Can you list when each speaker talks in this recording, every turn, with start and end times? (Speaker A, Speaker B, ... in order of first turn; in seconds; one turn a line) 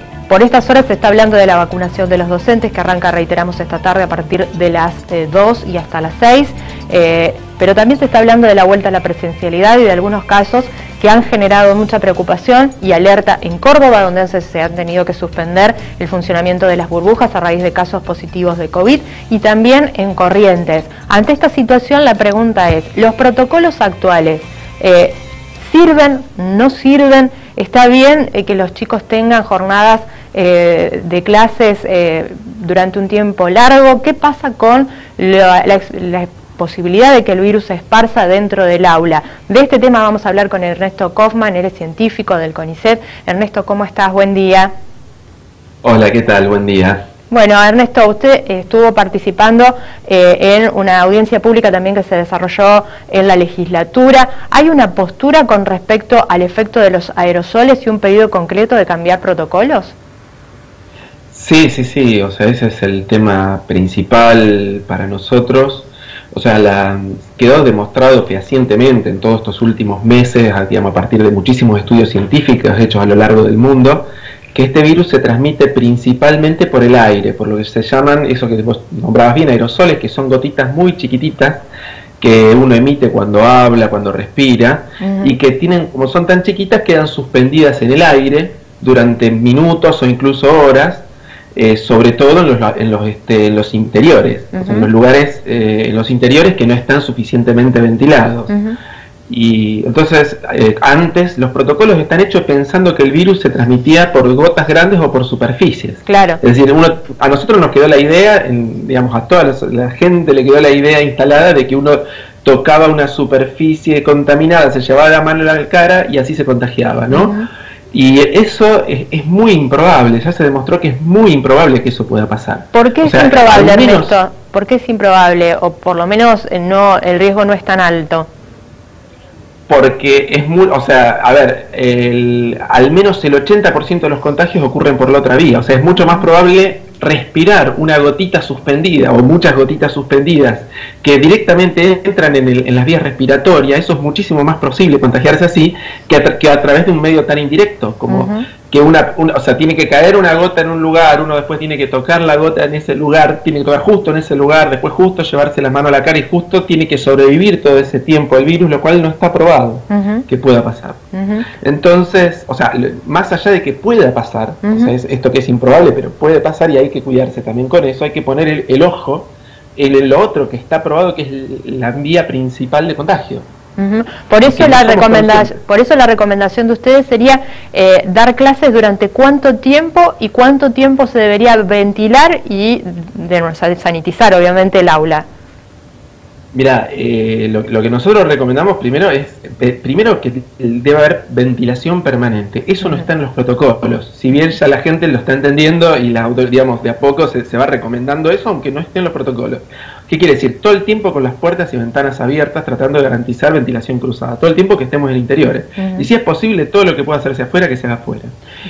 Speaker A: 0.3-44.7
Speaker B: 45.8-47.0
Speaker A: 47.3-59.9
Speaker B: 61.3-81.7
Speaker B: 82.2-98.5
Speaker A: 85.0-85.3
Speaker A: 94.5-94.9
Speaker A: 98.5-98.8
Speaker B: 99.3-117.3
Speaker A: 106.0-106.4
Speaker A: 117.1-117.5
Speaker B: 117.9-124.2
Speaker A: 122.7-128.3
Speaker B: 129.7-161.0
Speaker A: 148.1-148.5
Speaker A: 159.9-160.2
Speaker A: 161.1-161.4
Speaker B: 161.6-173.5
Speaker A: 164.6-164.9
Speaker A: 173.8-185.2
Speaker B: 174.4-175.6
Speaker B: 186.5-208.3
Speaker A: 205.8-206.1